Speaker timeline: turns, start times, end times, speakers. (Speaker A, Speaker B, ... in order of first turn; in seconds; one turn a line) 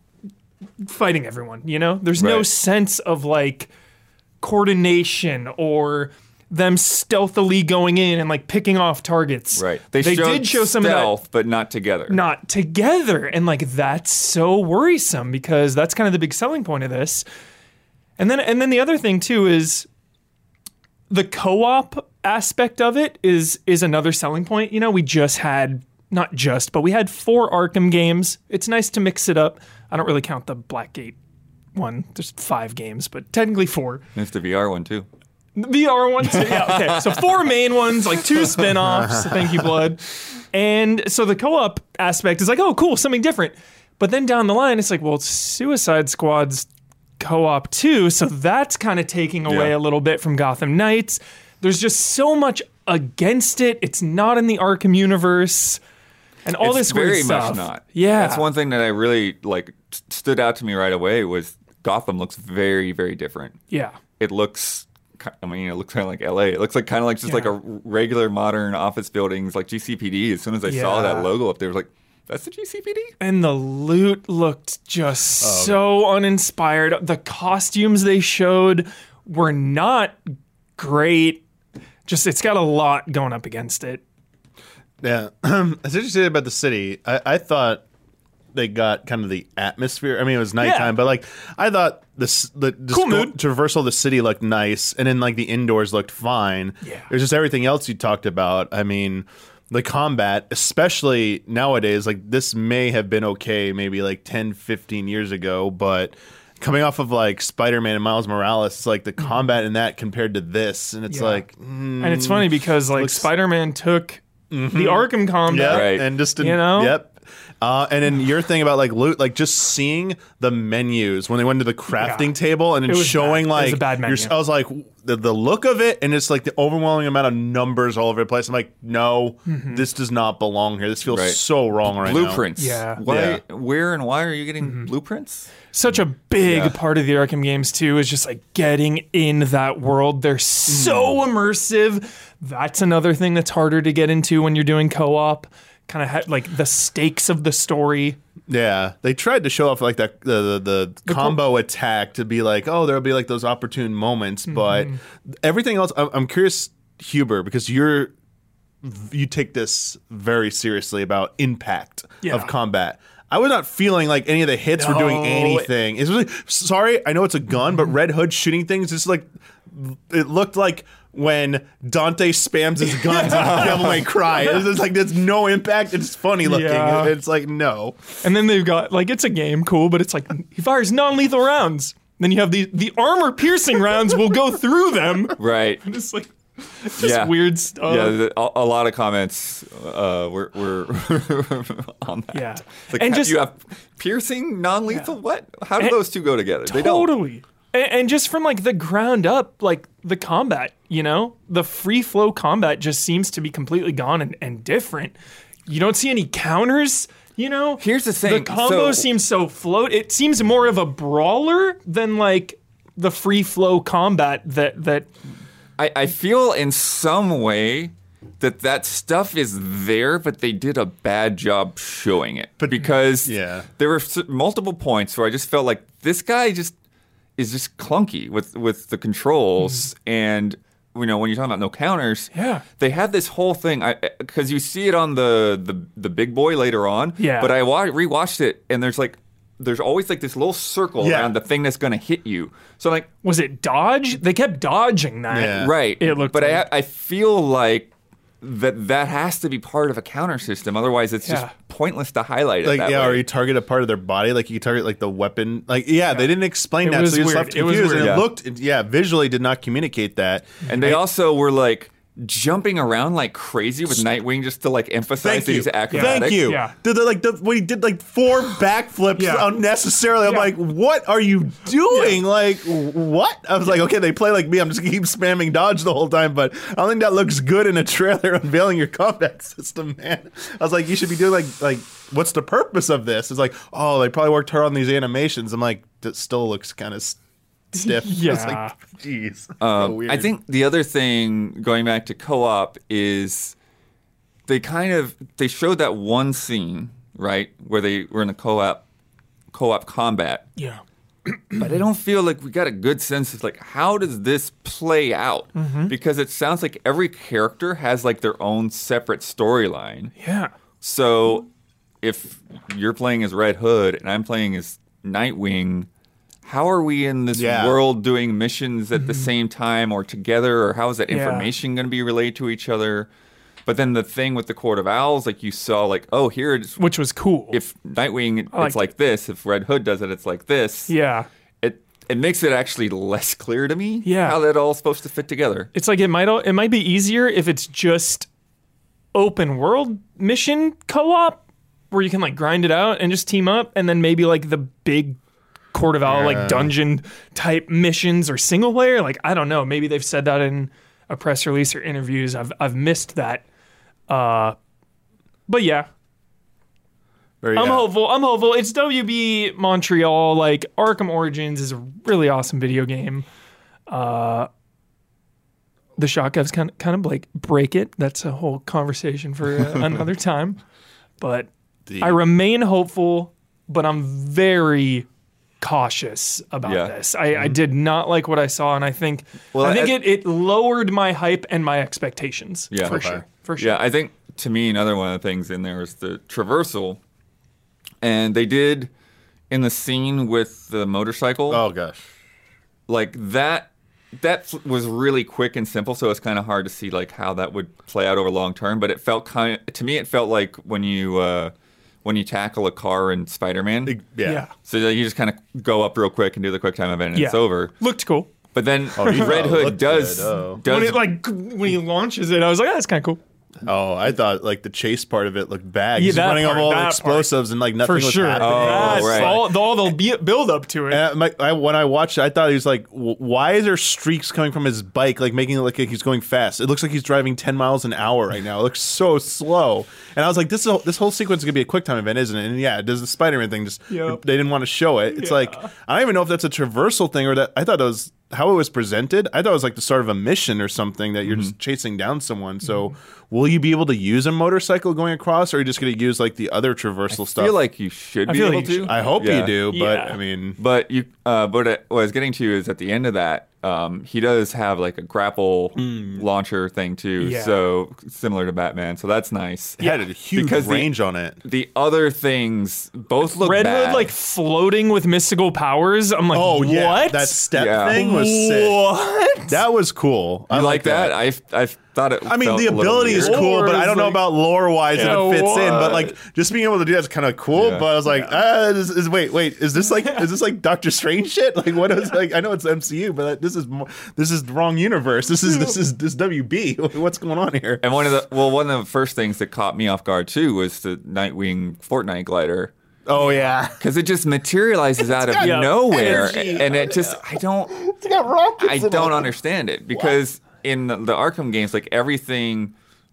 Speaker A: 0.8-3.7
Speaker B: 2.1-2.5
Speaker A: 4.4-11.2
Speaker B: 9.5-12.2
Speaker A: 12.1-17.2
Speaker A: 18.2-19.9
Speaker A: 21.1-31.2
Speaker A: 31.7-34.0
Speaker B: 34.1-35.1
Speaker A: 35.6-46.7
Speaker B: 36.2-37.3
Speaker B: 38.4-38.7
Speaker C: 38.9-39.4
Speaker A: 47.2-55.8
Speaker B: 49.5-49.8
Speaker A: 56.4-58.5
Speaker B: 56.6-63.6
Speaker A: 63.7-64.0
Speaker B: 64.2-73.1
Speaker A: 67.2-67.5
Speaker A: 70.7-71.3
Speaker A: 73.2-81.4
Speaker C: 75.4-75.9
Speaker A: 82.1-84.0
Speaker C: 85.0-87.8
Speaker C: 88.5-113.3
Speaker A: 90.6-90.9
Speaker A: 92.9-93.3
Speaker A: 96.8-97.1
Speaker A: 111.1-111.4
Speaker A: 112.0-117.0
Speaker C: 114.5-132.4
Speaker B: 115.6-116.1
Speaker A: 122.0-122.3
Speaker A: 122.9-124.3
Speaker A: 129.5-129.8
Speaker B: 131.1-131.4
Speaker B: 132.0-135.5
Speaker A: 132.6-133.0
Speaker C: 133.1-133.4
Speaker A: 134.6-134.9
Speaker A: 135.7-148.2
Speaker B: 136.4-136.8
Speaker C: 140.7-141.2
Speaker C: 148.5-158.1
Speaker A: 151.1-151.4
Speaker A: 154.5-155.0
Speaker C: 158.8-178.1
Speaker A: 162.2-162.5
Speaker A: 164.8-165.7
Speaker A: 172.9-174.6
Speaker A: 176.4-177.1
Speaker A: 178.2-188.2
Speaker B: 185.4-185.8
Speaker B: 187.0-197.1
Speaker A: 192.3-193.4
Speaker A: 196.7-205.2
Speaker A: 205.7-215.1
Speaker B: 207.8-209.1
Speaker B: 215.8-226.7
Speaker C: 222.6-223.7
Speaker B: 227.4-243.1
Speaker A: 232.3-232.6
Speaker A: 237.2-237.5
Speaker C: 241.0-241.3
Speaker A: 243.2-246.7
Speaker C: 245.3-245.7
Speaker B: 245.6-253.2
Speaker A: 251.2-251.5
Speaker C: 252.6-260.6
Speaker A: 256.8-258.2
Speaker B: 257.8-258.3
Speaker B: 260.6-266.4
Speaker A: 260.7-261.0
Speaker C: 265.2-287.2
Speaker A: 265.9-266.7
Speaker A: 269.2-269.5
Speaker A: 270.2-270.5
Speaker A: 271.9-272.2
Speaker C: 287.7-290.3
Speaker A: 287.8-288.7
Speaker B: 289.6-293.6
Speaker B: 294.5-298.8
Speaker B: 299.5-300.4
Speaker A: 300.6-301.7
Speaker B: 301.5-310.1
Speaker A: 305.6-305.9
Speaker A: 310.2-310.5
Speaker B: 310.8-311.5
Speaker B: 312.0-315.9
Speaker B: 316.4-323.1
Speaker C: 317.3-317.8
Speaker A: 318.9-319.3
Speaker A: 321.1-321.5
Speaker B: 323.7-326.8
Speaker A: 326.8-327.6
Speaker B: 327.5-330.9
Speaker A: 328.5-328.8
Speaker A: 330.9-331.3
Speaker B: 331.6-335.7
Speaker A: 334.1-334.4
Speaker A: 335.7-338.3
Speaker A: 339.1-345.2
Speaker A: 345.7-353.4
Speaker C: 346.1-346.7
Speaker A: 354.1-354.6
Speaker A: 355.5-355.9
Speaker C: 357.4-357.9
Speaker A: 357.5-363.2
Speaker A: 363.9-364.5
Speaker A: 366.0-370.6
Speaker A: 371.2-371.5
Speaker C: 371.9-372.2
Speaker A: 372.0-375.1
Speaker A: 375.6-383.8
Speaker B: 376.6-376.9
Speaker B: 379.5-380.1
Speaker B: 382.7-387.0
Speaker C: 382.8-383.2
Speaker B: 388.0-388.9
Speaker B: 389.5-391.6
Speaker C: 391.5-392.0
Speaker B: 392.9-401.5
Speaker B: 402.0-404.1
Speaker C: 403.9-404.5
Speaker A: 404.2-404.5
Speaker B: 404.6-407.7
Speaker A: 407.1-408.3
Speaker B: 408.5-411.1
Speaker C: 408.9-410.6
Speaker A: 409.0-409.5
Speaker A: 410.7-413.2
Speaker C: 413.6-419.5
Speaker A: 415.9-417.3
Speaker A: 417.8-421.0
Speaker B: 418.4-419.5
Speaker C: 420.9-447.6
Speaker A: 433.9-434.2
Speaker A: 435.1-435.7
Speaker B: 441.2-441.5
Speaker B: 447.1-449.6
Speaker A: 448.3-449.1
Speaker C: 448.9-450.6
Speaker A: 449.7-450.2
Speaker B: 450.6-460.9
Speaker C: 455.8-456.2
Speaker A: 457.2-457.6
Speaker C: 459.8-461.4
Speaker B: 461.4-464.1
Speaker A: 463.4-469.6
Speaker C: 466.3-468.8
Speaker B: 467.6-468.1
Speaker C: 469.5-471.2
Speaker B: 470.5-473.5
Speaker C: 472.2-487.8
Speaker A: 473.1-474.2
Speaker A: 474.9-476.2
Speaker B: 477.5-477.9
Speaker B: 487.8-492.7
Speaker C: 493.1-493.8
Speaker B: 493.8-497.8
Speaker C: 495.2-499.3
Speaker A: 495.4-496.7
Speaker B: 498.6-502.7